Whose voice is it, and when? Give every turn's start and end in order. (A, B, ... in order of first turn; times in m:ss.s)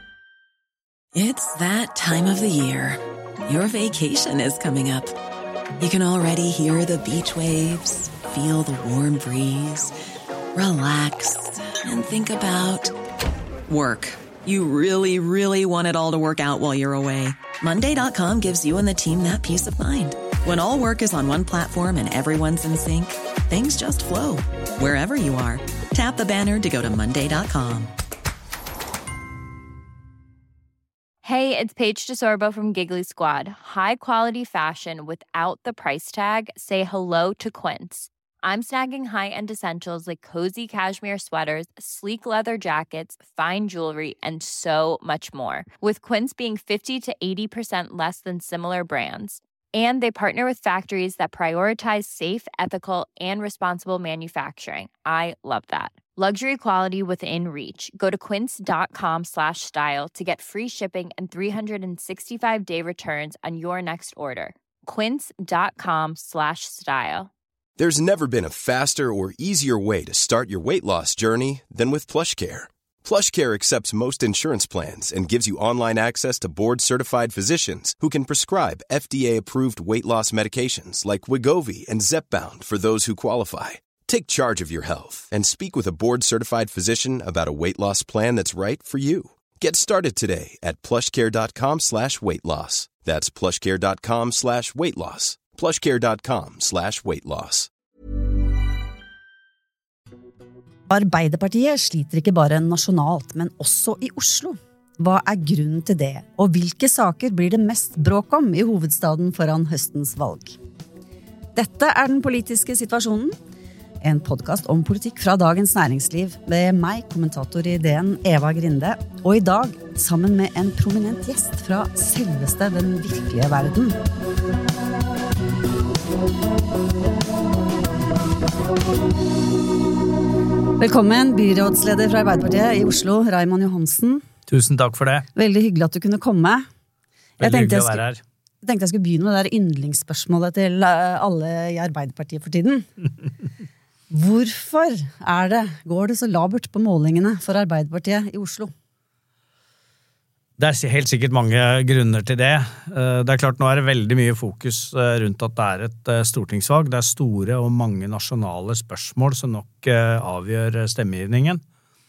0:01.1-0:05.1 A
0:05.8-0:09.9 A
0:10.5-0:12.9 A
0:13.7-0:27.9 A
0:31.2-1:07.3 B
1:07.8-1:37.7 C
1:40.9-1:50.6 D
1:51.6-1:53.4 D
1:54.0-2:04.0 D
2:10.8-2:14.2 D
2:14.5-2:15.3 E
2:15.3-2:16.6 D
2:17.4-2:18.2 E
2:17.4-2:18.0 D
2:18.6-2:22.9 D
2:24.1-2:28.7 D
2:30.6-2:41.6 E